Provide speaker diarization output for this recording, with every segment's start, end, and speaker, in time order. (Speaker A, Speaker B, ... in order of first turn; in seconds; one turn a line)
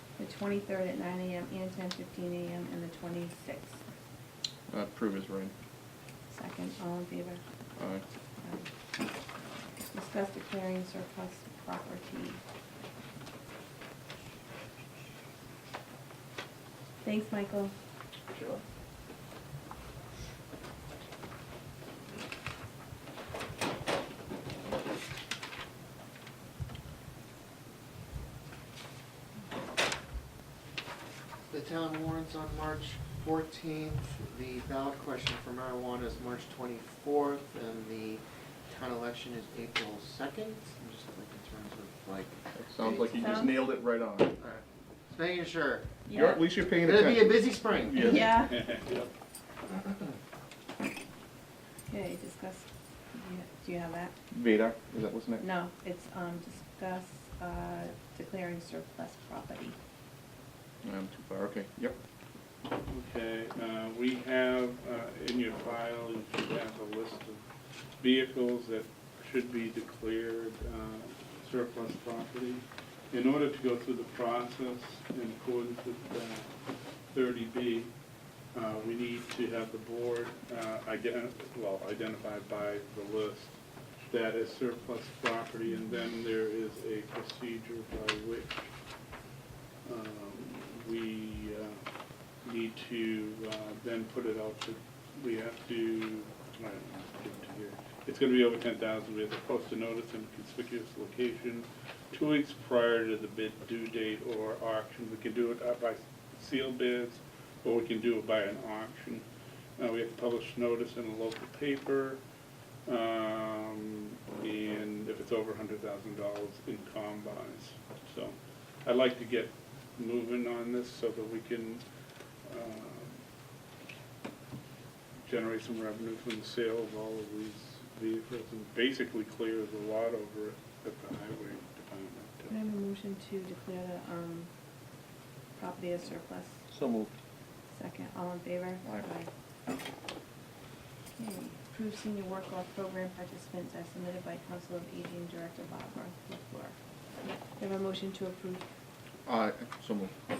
Speaker A: 0.2-3.8
Speaker B: 4.7-5.5
Speaker A: 6.3-7.4
Speaker B: 7.8-8.0
Speaker A: 8.4-8.7
Speaker A: 9.9-12.4
Speaker A: 17.0-17.8
Speaker C: 31.5-43.1
Speaker B: 42.6-44.3
Speaker A: 42.8-43.6
Speaker C: 44.4-46.0
Speaker A: 46.0-46.4
Speaker B: 46.1-48.4
Speaker C: 46.8-48.0
Speaker A: 48.0-48.6
Speaker D: 48.3-49.1
Speaker A: 51.9-54.1
Speaker B: 54.3-55.4
Speaker A: 55.4-59.8
Speaker B: 60.8-62.0
Speaker D: 62.8-67.4
Speaker D: 68.0-76.5
Speaker D: 77.1-77.9
Speaker D: 78.5-83.5
Speaker D: 84.1-88.7
Speaker D: 89.8-91.8
Speaker D: 92.4-109.3
Speaker D: 109.8-112.2
Speaker D: 112.8-121.8
Speaker D: 122.5-123.2
Speaker D: 125.2-132.6
Speaker A: 132.5-134.5
Speaker A: 135.6-136.7
Speaker B: 136.7-137.1
Speaker A: 137.7-139.3
Speaker A: 141.2-146.8
Speaker A: 147.6-148.7
Speaker B: 149.3-150.2